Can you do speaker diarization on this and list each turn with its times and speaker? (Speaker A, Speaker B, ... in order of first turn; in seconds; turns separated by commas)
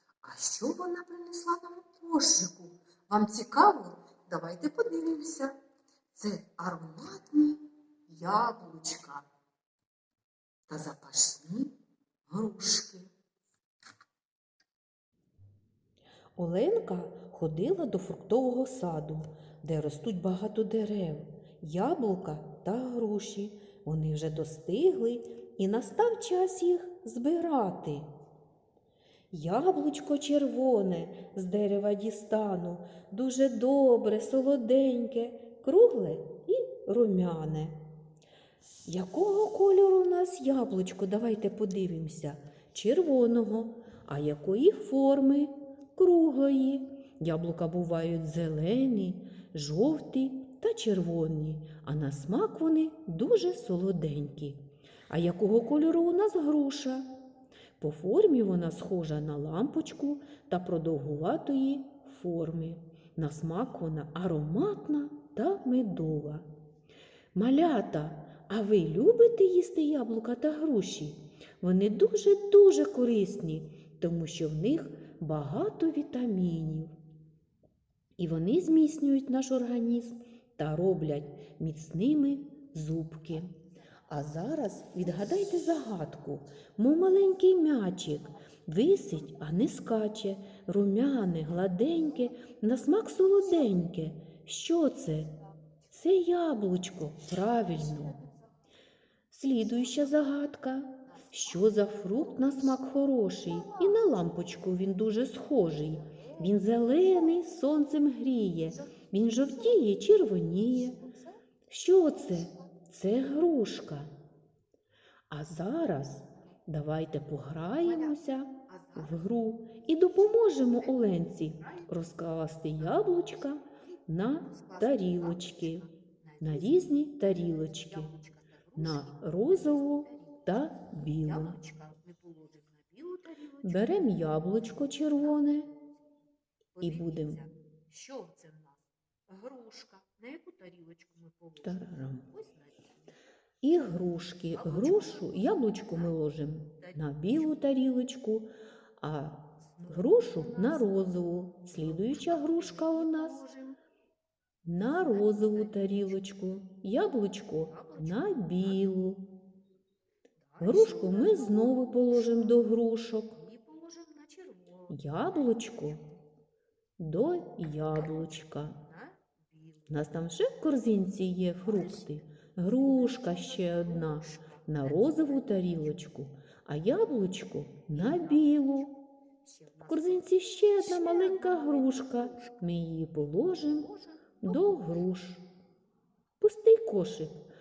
Speaker A: 0.2-5.5, Speaker A: 6.1-9.3, Speaker A: 10.7-11.7, Speaker A: 12.3-13.1, Speaker B: 16.4-28.1, Speaker B: 29.3-37.8, Speaker B: 38.9-54.6, Speaker B: 55.1-57.1, Speaker B: 57.8-66.5, Speaker B: 67.3-76.9, Speaker B: 78.2-83.5, Speaker B: 84.1-95.4, Speaker B: 95.9-98.2, Speaker A: 97.8-98.3, Speaker B: 99.3-111.0, Speaker A: 99.7-100.4, Speaker A: 101.1-102.8, Speaker A: 103.5-104.7, Speaker A: 106.0-107.4, Speaker A: 108.7-109.9, Speaker A: 110.4-111.4, Speaker B: 111.7-114.1, Speaker A: 112.0-112.7, Speaker B: 115.3-125.8, Speaker A: 117.8-119.2, Speaker A: 120.1-122.1, Speaker A: 122.8-123.5, Speaker A: 124.4-130.5, Speaker B: 126.4-128.1, Speaker B: 128.8-131.6, Speaker A: 131.2-135.5, Speaker B: 133.7-135.7, Speaker A: 136.8-143.1, Speaker B: 136.8-137.4, Speaker B: 141.6-142.3, Speaker B: 143.6-153.4, Speaker A: 144.5-146.2, Speaker A: 146.8-147.5, Speaker A: 149.7-151.2, Speaker A: 151.7-153.8, Speaker B: 154.7-159.2, Speaker A: 154.8-156.2, Speaker A: 157.6-158.8, Speaker A: 160.4-162.6, Speaker B: 160.6-163.4, Speaker A: 163.3-166.2, Speaker B: 164.9-166.0, Speaker B: 167.0-168.8, Speaker A: 167.8-170.1, Speaker B: 169.9-178.9, Speaker A: 171.6-172.2, Speaker A: 172.8-176.0, Speaker A: 177.9-182.6, Speaker B: 179.9-185.4, Speaker A: 183.7-185.1, Speaker B: 186.4-187.4